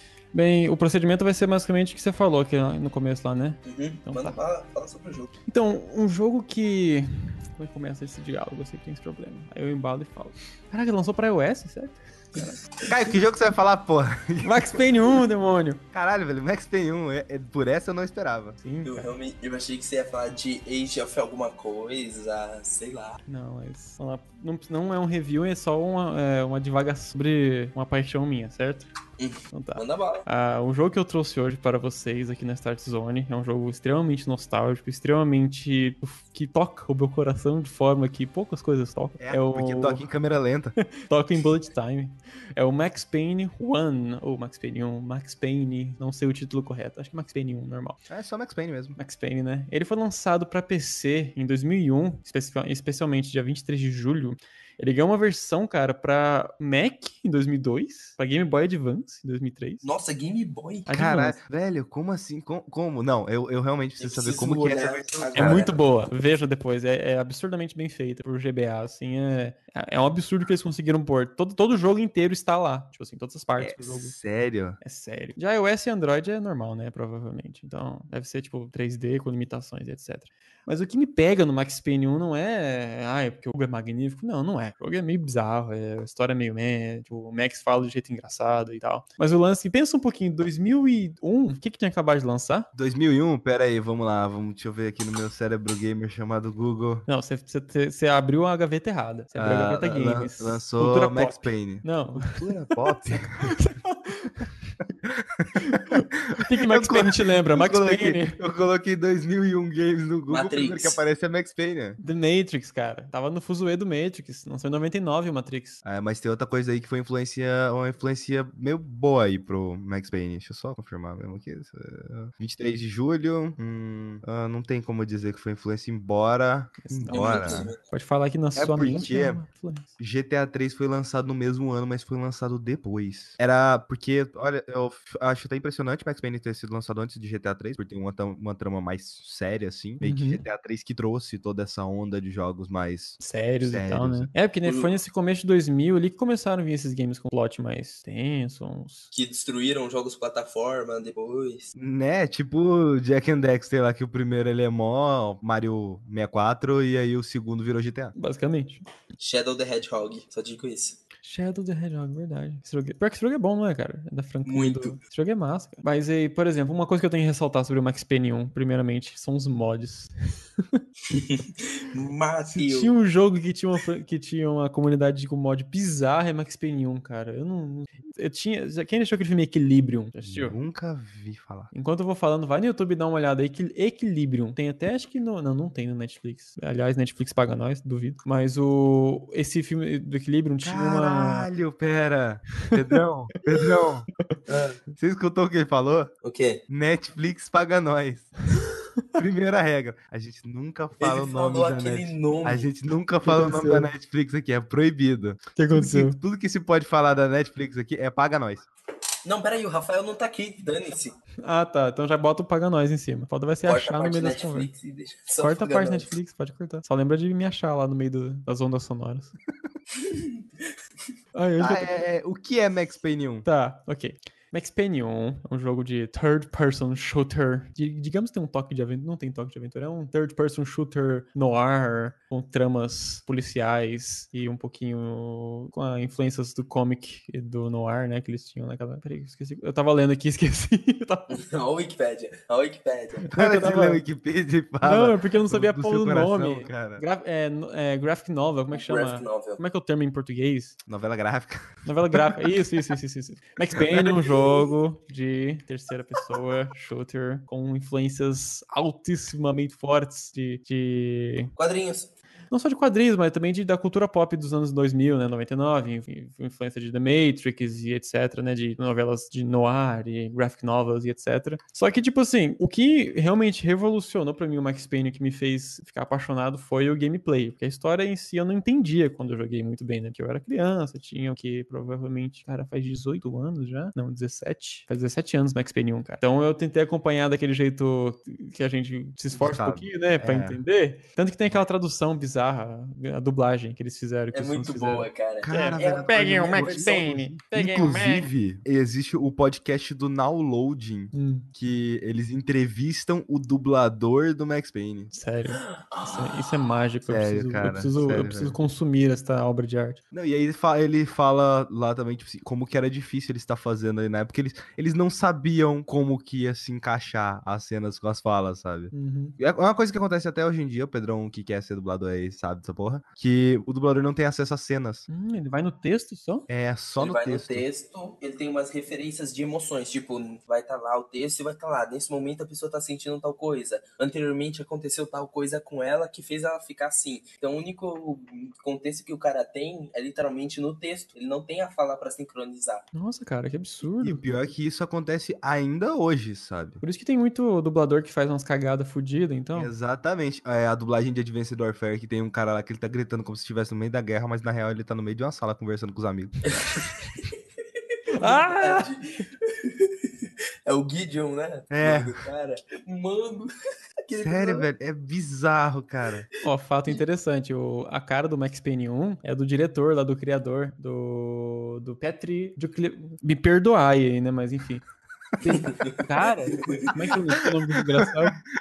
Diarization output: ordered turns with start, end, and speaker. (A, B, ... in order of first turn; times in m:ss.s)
0:00.3-0:04.4 A
0:03.6-0:05.3 B
0:05.5-0:12.6 A
0:12.8-0:14.8 C
0:14.4-0:15.8 A
0:15.9-0:18.6 C
0:18.6-0:19.1 A
0:18.8-0:23.2 B
0:23.3-0:28.9 A
0:29.2-0:30.3 B
0:29.5-0:40.0 A
0:39.2-0:40.8 C
0:40.8-0:48.0 A
0:48.1-0:49.0 C
0:49.0-0:59.8 A
0:59.8-1:00.9 B
1:00.9-1:01.4 A
1:00.9-1:05.7 C
1:04.0-1:05.8 B
1:05.4-1:14.1 A
1:13.6-1:14.8 C
1:14.8-1:32.7 A
1:32.8-1:37.0 C
1:37.1-1:42.6 A
1:39.4-1:43.6 C
1:43.1-1:44.5 A
1:45.0-1:52.0 C
1:45.6-1:48.4 A
1:50.3-1:51.0 B
1:52.0-1:55.8 A
1:55.8-2:07.7 C
2:06.8-2:09.9 A
2:07.1-2:07.8 B
2:08.6-2:09.4 C
2:10.0-2:24.3 C
2:20.0-2:20.4 A
2:23.2-2:29.1 A
2:24.6-2:24.9 B
2:29.1-2:31.7 B
2:31.8-2:38.2 C
2:38.2-2:38.9 A
2:39.2-2:41.0 B
2:41.2-2:50.8 A
2:44.5-2:45.0 B
2:51.1-2:52.9 B
2:52.5-3:00.6 A
3:00.2-3:01.7 C
3:01.7-3:11.5 A
3:10.6-3:14.1 C
3:14.5-3:14.8 B
3:15.0-3:16.1 C
3:16.2-3:16.6 B
3:16.7-3:18.3 C
3:19.2-3:28.7 C
3:21.0-3:22.7 B
3:23.2-3:23.9 A
3:25.6-3:26.2 A
3:29.2-3:31.2 B
3:31.4-3:34.7 A
3:33.6-3:36.1 B
3:35.4-3:39.3 A
3:40.0-3:40.4 B
3:41.3-3:42.0 A
3:41.6-3:43.4 C
3:43.4-4:01.4 A
4:01.3-4:03.3 B
4:03.3-4:04.0 A
4:03.3-4:07.0 C
4:04.8-4:10.8 A
4:08.7-4:09.6 B
4:10.9-4:12.6 C
4:11.9-4:21.5 A
4:13.8-4:14.3 C
4:21.6-4:22.1 B
4:22.5-4:58.3 A
4:49.3-4:50.6 C
4:54.3-4:57.1 B
4:55.4-5:05.1 C
5:01.1-5:01.5 A
5:05.1-5:10.0 A
5:05.6-5:06.5 B
5:07.1-5:08.6 C
5:10.1-5:25.1 C
5:18.9-5:19.4 A
5:25.1-5:26.5 A
5:26.5-5:27.7 C
5:27.0-5:42.9 B
5:42.9-5:44.2 A
5:44.0-5:46.8 C
5:46.8-5:49.7 A
5:49.5-5:56.8 C
5:56.5-5:57.3 B
5:58.1-6:03.5 B
5:58.2-5:58.9 A
6:01.7-6:02.2 C
6:04.1-6:04.7 B
6:04.2-6:06.3 C
6:06.4-6:14.8 A
6:15.4-6:18.4 A
6:15.5-6:16.9 B
6:17.4-6:18.1 C